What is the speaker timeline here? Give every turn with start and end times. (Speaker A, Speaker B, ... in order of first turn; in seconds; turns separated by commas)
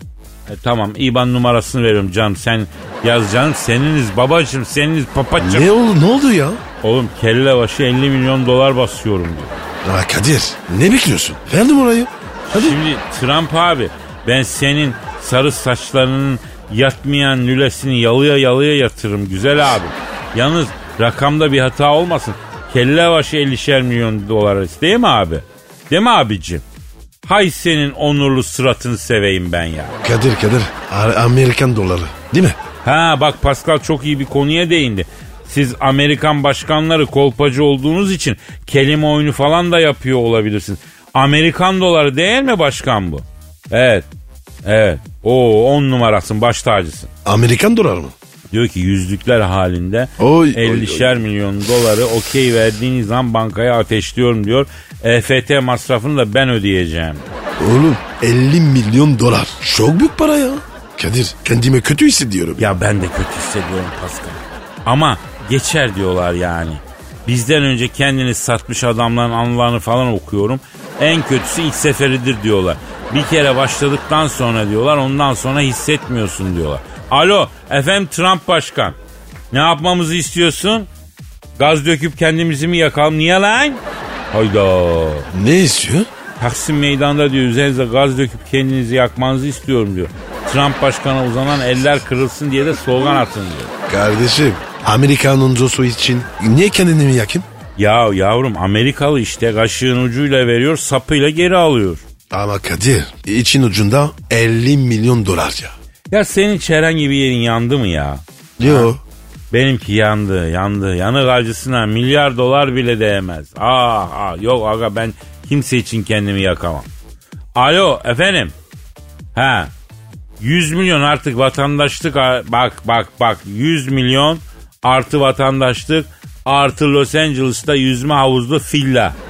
Speaker A: 0.5-5.7, Speaker B: 5.4-6.6, Speaker A: 6.8-9.5, Speaker B: 9.8-12.8, Speaker A: 12.5-26.6, Speaker A: 27.2-30.0, Speaker B: 30.0-32.6, Speaker A: 32.8-44.1, Speaker A: 44.6-47.1, Speaker B: 47.2-48.1, Speaker A: 48.5-57.3, Speaker B: 50.2-51.2, Speaker B: 57.6-62.8, Speaker A: 62.6-79.0, Speaker A: 79.5-80.9, Speaker A: 81.6-85.3, Speaker B: 85.3-86.1, Speaker A: 86.4-93.7, Speaker B: 93.9-97.5, Speaker A: 97.8-102.0, Speaker B: 102.3-105.8, Speaker A: 106.1-108.9, Speaker B: 108.6-109.0, Speaker A: 109.5-116.9, Speaker A: 117.6-118.5, Speaker A: 119.3-119.7, Speaker A: 120.4-129.2